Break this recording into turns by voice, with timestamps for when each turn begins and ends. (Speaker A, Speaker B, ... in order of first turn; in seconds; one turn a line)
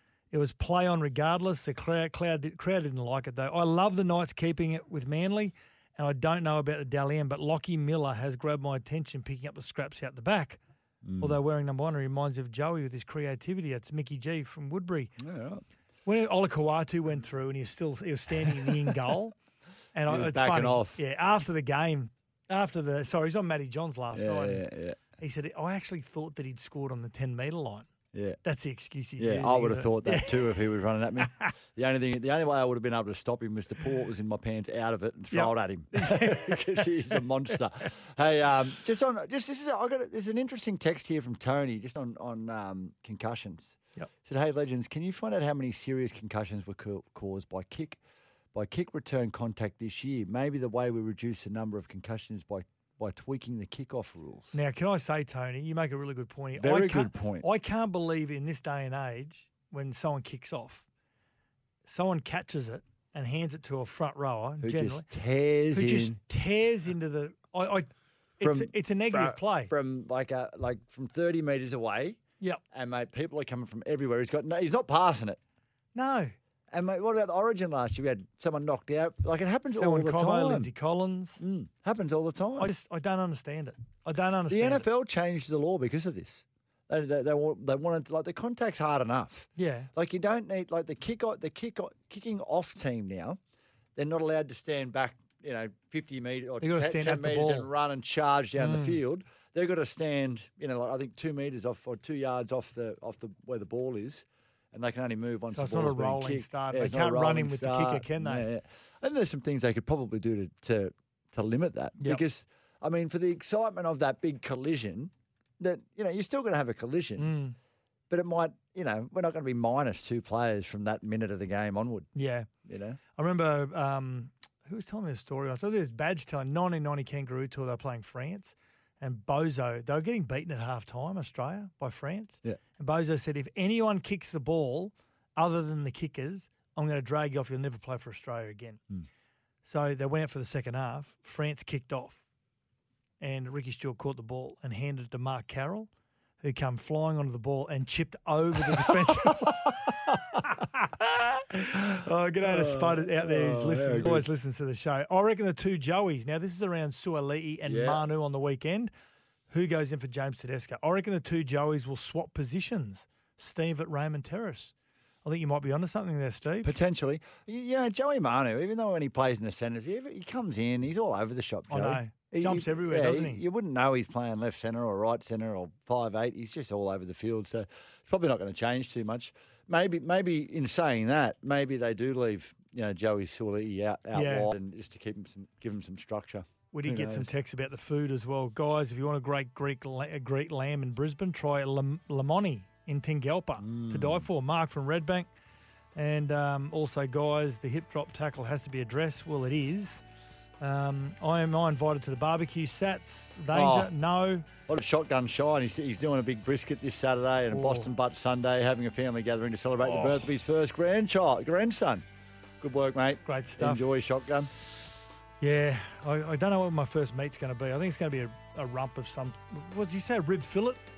Speaker A: 0.3-10.6
Speaker B: 11.0-11.4
Speaker A: 11.2-15.1
Speaker B: 15.2-15.6
Speaker A: 16.1-19.3
Speaker A: 19.9-24.6
Speaker B: 20.1-21.0
Speaker B: 24.1-25.0
Speaker A: 25.2-27.9
Speaker B: 28.1-28.4
Speaker A: 28.4-30.6
Speaker B: 29.2-48.0
Speaker A: 31.2-31.5
Speaker A: 35.3-37.2
Speaker B: 48.5-54.6
Speaker A: 54.5-60.8
Speaker B: 56.5-57.5
Speaker A: 61.9-65.1
Speaker B: 64.6-66.2
Speaker A: 65.7-69.7
Speaker B: 68.4-72.2
Speaker B: 72.7-75.4
Speaker A: 75.9-76.3
Speaker B: 76.7-80.7
Speaker A: 79.7-81.4
Speaker B: 81.4-82.7
Speaker A: 82.6-84.9
Speaker B: 84.5-93.4
Speaker A: 89.6-89.9
Speaker B: 94.0-117.4
Speaker A: 96.6-97.7
Speaker A: 98.6-99.0
Speaker A: 105.5-108.5
Speaker A: 117.2-117.5
Speaker B: 118.1-122.1
Speaker A: 122.1-122.5
Speaker B: 122.6-123.0
Speaker A: 123.2-138.8
Speaker A: 139.6-142.2
Speaker A: 143.2-145.9
Speaker A: 146.4-158.9
Speaker B: 148.7-149.5
Speaker B: 151.8-154.3
Speaker B: 157.6-158.1
Speaker A: 159.5-164.7
Speaker A: 165.2-166.7
Speaker B: 166.6-187.3
Speaker A: 171.7-173.4
Speaker A: 184.1-184.5
Speaker A: 186.7-195.3
Speaker B: 193.6-194.3
Speaker A: 195.9-200.0
Speaker A: 200.6-204.4
Speaker B: 203.5-203.9
Speaker B: 204.7-212.1
Speaker A: 207.5-207.9
Speaker A: 209.8-210.2
Speaker B: 212.6-214.5
Speaker A: 213.2-213.9
Speaker A: 215.4-220.8